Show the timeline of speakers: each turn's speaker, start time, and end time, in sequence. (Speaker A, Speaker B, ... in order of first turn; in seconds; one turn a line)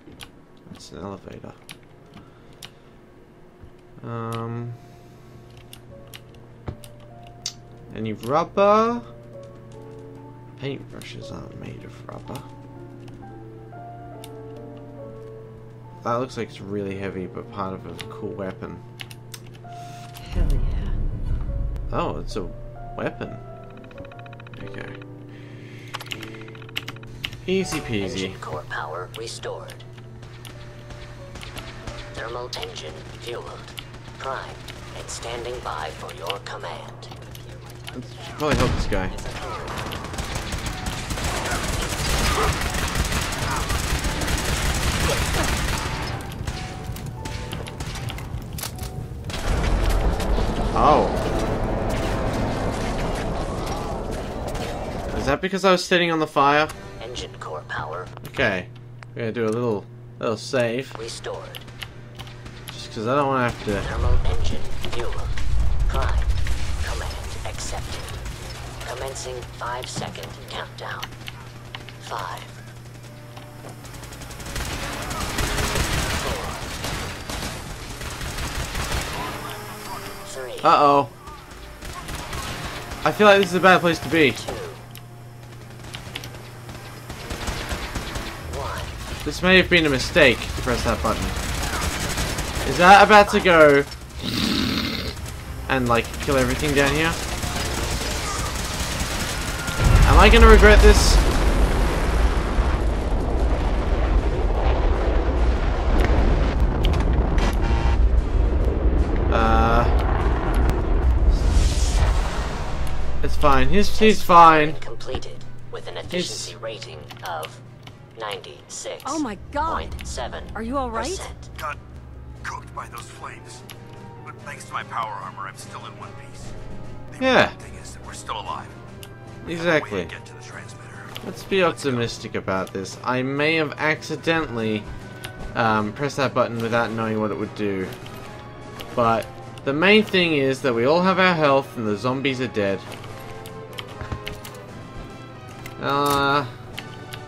Speaker A: 0.7-1.6
Speaker A: 4.0-4.8
Speaker A: 7.9-9.1
Speaker A: 10.6-12.5
Speaker A: 16.0-18.8
Speaker B: 20.2-20.9
Speaker A: 21.9-23.4
Speaker A: 24.6-25.0
Speaker A: 27.4-28.4
Speaker C: 28.0-29.8
Speaker C: 32.1-37.1
Speaker A: 37.9-39.2
Speaker C: 39.1-39.8
Speaker A: 50.7-51.2
Speaker A: 55.1-56.8
Speaker C: 57.0-58.1
Speaker A: 58.2-61.0
Speaker C: 61.0-61.7
Speaker A: 62.7-63.9
Speaker C: 63.8-65.4
Speaker C: 65.9-68.2
Speaker C: 68.8-71.1
Speaker C: 72.0-72.6
Speaker C: 76.0-76.7
Speaker D: 79.4-80.2
Speaker C: 80.2-80.7
Speaker A: 80.6-81.1
Speaker A: 83.0-84.5
Speaker C: 84.3-84.9
Speaker C: 88.4-89.0
Speaker A: 89.2-91.4
Speaker A: 92.7-93.9
Speaker C: 93.2-93.6
Speaker A: 95.7-97.2
Speaker C: 97.7-98.3
Speaker A: 100.0-101.2
Speaker A: 109.3-110.0
Speaker A: 113.2-114.8
Speaker C: 114.0-117.6
Speaker A: 116.1-116.6
Speaker C: 118.2-121.5
Speaker B: 119.0-119.9
Speaker B: 120.5-121.3
Speaker D: 122.4-123.7
Speaker D: 124.2-126.5
Speaker D: 127.1-128.8
Speaker A: 127.2-127.6
Speaker A: 129.4-130.1
Speaker D: 129.4-132.2
Speaker A: 131.2-134.9
Speaker A: 135.5-137.9
Speaker A: 138.9-142.9
Speaker A: 145.8-146.5